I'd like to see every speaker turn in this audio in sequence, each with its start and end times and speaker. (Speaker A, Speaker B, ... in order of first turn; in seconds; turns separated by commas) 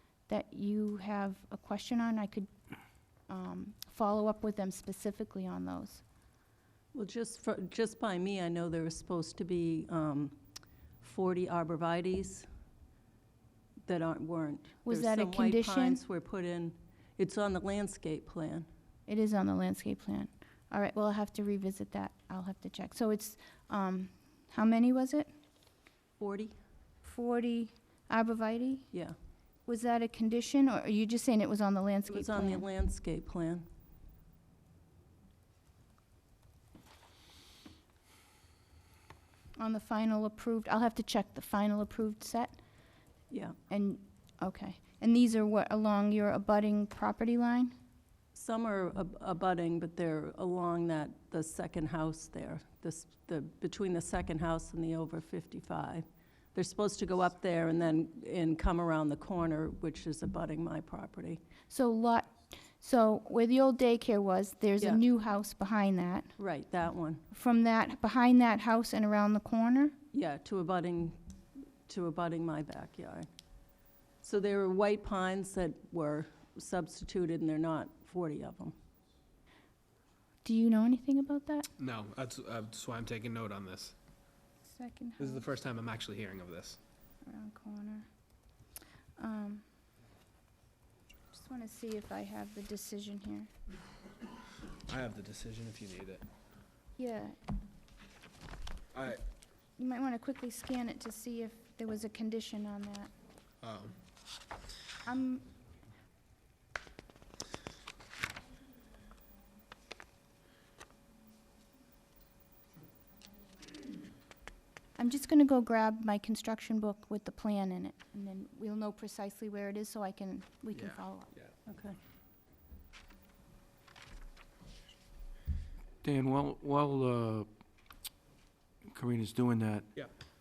Speaker A: 0.3-2.5, Speaker A: 3.3-6.0, Speaker B: 6.9-10.3, Speaker B: 11.0-12.5, Speaker B: 13.8-18.7, Speaker A: 14.8-16.0, Speaker A: 19.1-25.3, Speaker B: 26.2-26.6, Speaker A: 27.0-28.9, Speaker A: 29.7-32.6, Speaker B: 32.1-33.7, Speaker A: 39.6-42.6, Speaker A: 43.7-47.7, Speaker B: 48.3-61.4, Speaker A: 61.7-66.3, Speaker B: 66.4-67.2, Speaker A: 67.3-70.0, Speaker B: 70.1-73.3, Speaker B: 74.2-78.8, Speaker A: 80.4-81.7, Speaker C: 81.8-83.9, Speaker A: 84.6-85.5, Speaker C: 85.2-86.8, Speaker A: 87.2-88.1, Speaker A: 89.2-89.7, Speaker A: 91.3-93.5, Speaker C: 94.9-96.2, Speaker A: 97.0-97.4, Speaker C: 98.9-99.2, Speaker A: 99.8-103.1, Speaker C: 103.6-103.9, Speaker A: 105.0-105.5, Speaker A: 115.0-121.3, Speaker C: 120.7-121.5, Speaker B: 121.7-122.0, Speaker D: 126.0-127.5, Speaker D: 128.9-129.9